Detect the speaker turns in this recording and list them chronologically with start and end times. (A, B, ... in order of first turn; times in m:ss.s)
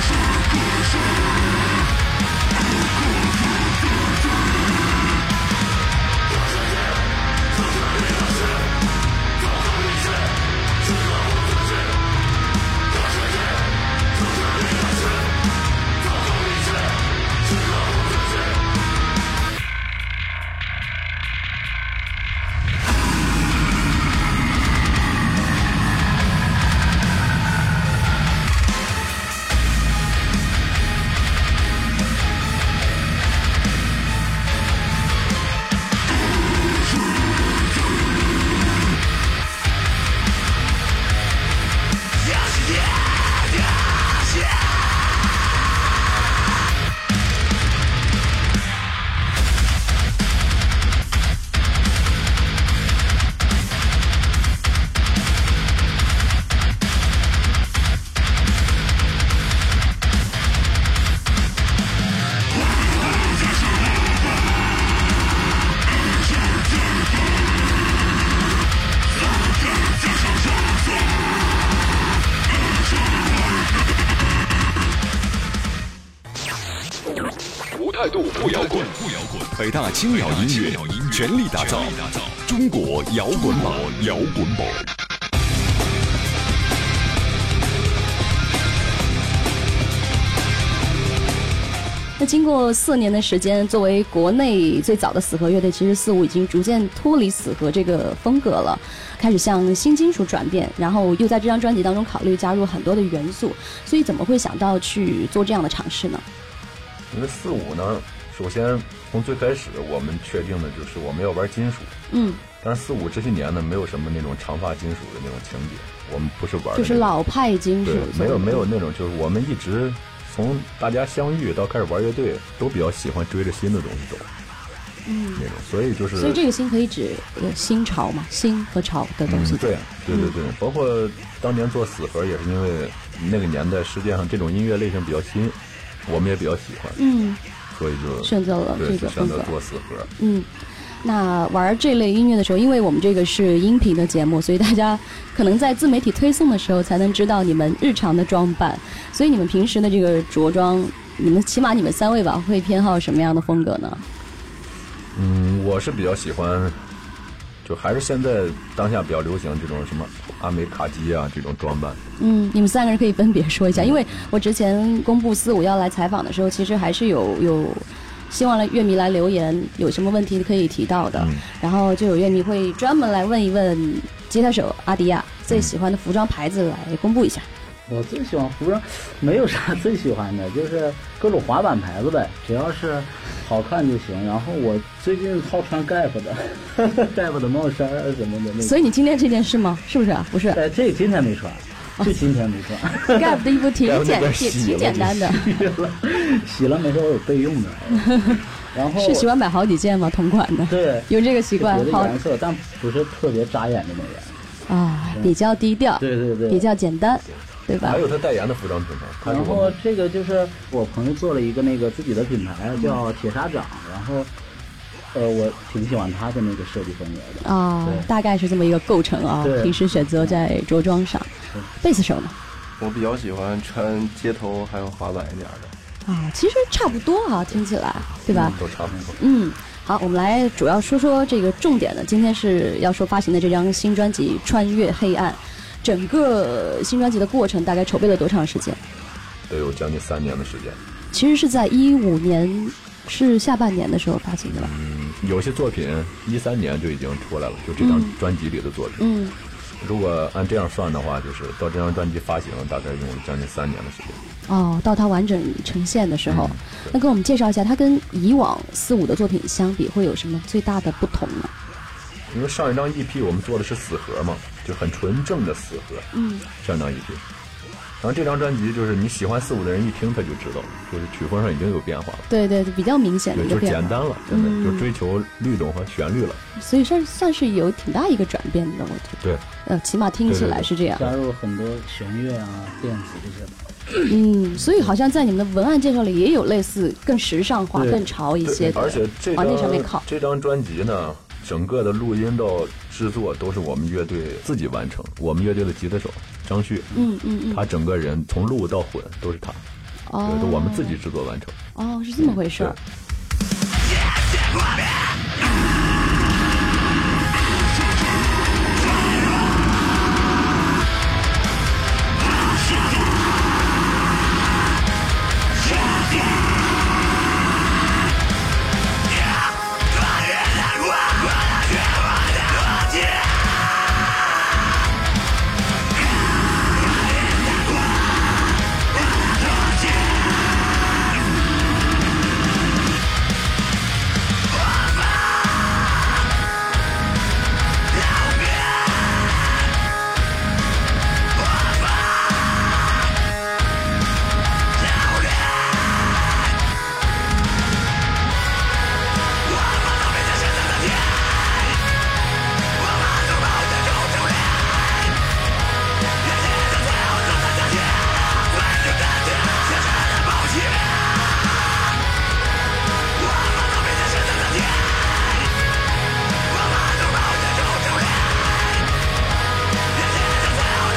1:17.8-1:24.9 A
1:32.2-1:46.2 B
1:47.1-1:52.0 C
1:52.1-1:52.4 B
1:52.6-1:57.1 C
1:56.7-1:58.7 B
1:57.8-2:04.3 C
2:05.0-2:05.4 B
2:05.4-2:06.4 C
2:06.2-2:10.3 B
2:09.3-2:17.0 C
2:17.0-2:17.4 B
2:17.7-2:20.1 C
2:18.2-2:19.5 B
2:20.2-2:20.5 B
2:21.0-2:34.0 B
2:35.1-2:36.9 C
2:37.6-2:42.0 C
2:42.2-2:57.5 B
2:51.1-2:51.4 C
2:57.9-3:08.9 D
3:08.6-3:10.6 B
3:10.5-3:13.4 D
3:13.0-3:15.5 B
3:13.8-3:15.2 C
3:15.4-3:19.3 D
3:18.0-3:18.4 B
3:19.0-3:22.2 B
3:20.7-3:24.4 D
3:24.7-3:28.0 B
3:25.1-3:25.3 D
3:26.0-3:26.7 D
3:27.8-3:29.8 C
3:29.2-3:34.3 D
3:35.1-3:38.1 D
3:37.4-3:42.3 B
3:39.4-3:40.4 D
3:42.8-3:45.7 E
3:46.0-3:48.6 B
3:48.0-3:49.2 C
3:48.3-3:48.6 D
3:49.2-3:58.8 B
3:59.5-4:00.8 C
4:01.1-4:04.7 B
4:04.5-4:09.0 C
4:07.8-4:08.1 B
4:09.0-4:09.3 B
4:09.8-4:14.2 C
4:14.5-4:21.5 B
4:16.3-4:17.0 C
4:22.3-4:26.1 C
4:26.1-4:26.4 B
4:26.6-4:27.2 C
4:28.0-4:32.3 C
4:32.3-4:34.8 B
4:33.3-4:36.4 C
4:36.6-4:41.1 B
4:40.2-4:40.7 C
4:40.9-4:44.1 D
4:44.1-4:50.0 B
4:47.7-4:48.1 D
4:48.4-4:59.6 C
4:56.9-4:57.6 B
5:00.1-5:01.0 B
5:00.2-5:01.6 C
5:01.8-5:02.8 B
5:02.2-5:02.8 C